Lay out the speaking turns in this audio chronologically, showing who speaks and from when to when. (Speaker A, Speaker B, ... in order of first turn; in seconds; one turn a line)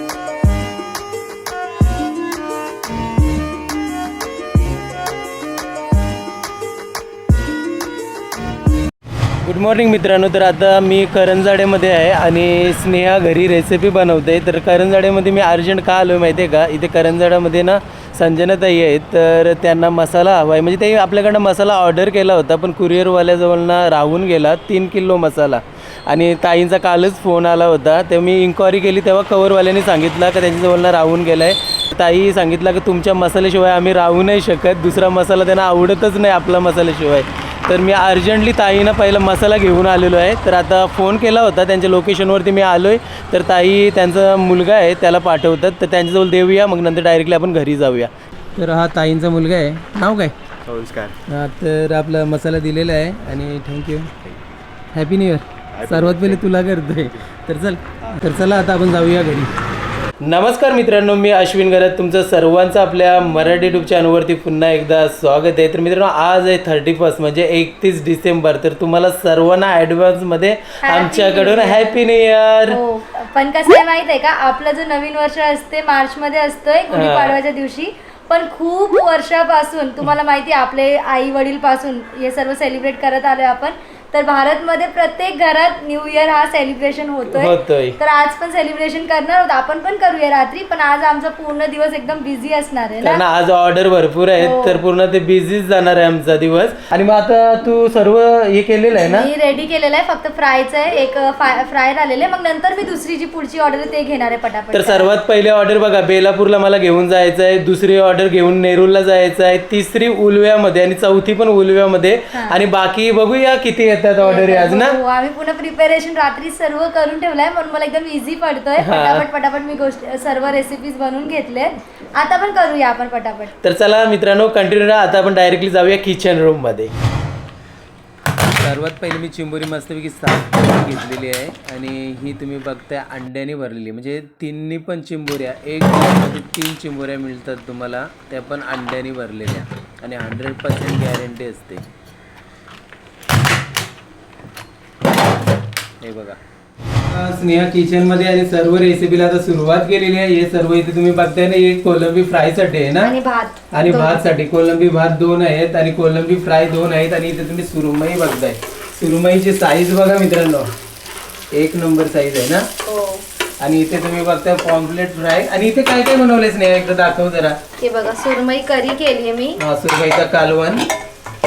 Speaker A: 9.4-50.3
Speaker A: 51.3-54.1
Speaker A: 54.9-59.5
Speaker A: 60.2-72.8
Speaker B: 70.8-72.0
Speaker B: 72.7-93.2
Speaker A: 76.9-77.4
Speaker A: 87.3-88.0
Speaker A: 93.0-99.3
Speaker B: 94.4-94.8
Speaker B: 99.0-105.1
Speaker A: 104.7-115.0
Speaker B: 114.2-123.5
Speaker A: 118.8-119.3
Speaker A: 123.6-126.9
Speaker A: 128.5-141.8
Speaker A: 146.0-146.4
Speaker A: 147.1-153.2
Speaker B: 153.0-154.2
Speaker A: 153.7-160.7
Speaker A: 161.5-162.7
Speaker B: 162.8-163.2
Speaker A: 163.6-167.6
Speaker B: 167.8-169.6
Speaker A: 169.6-170.9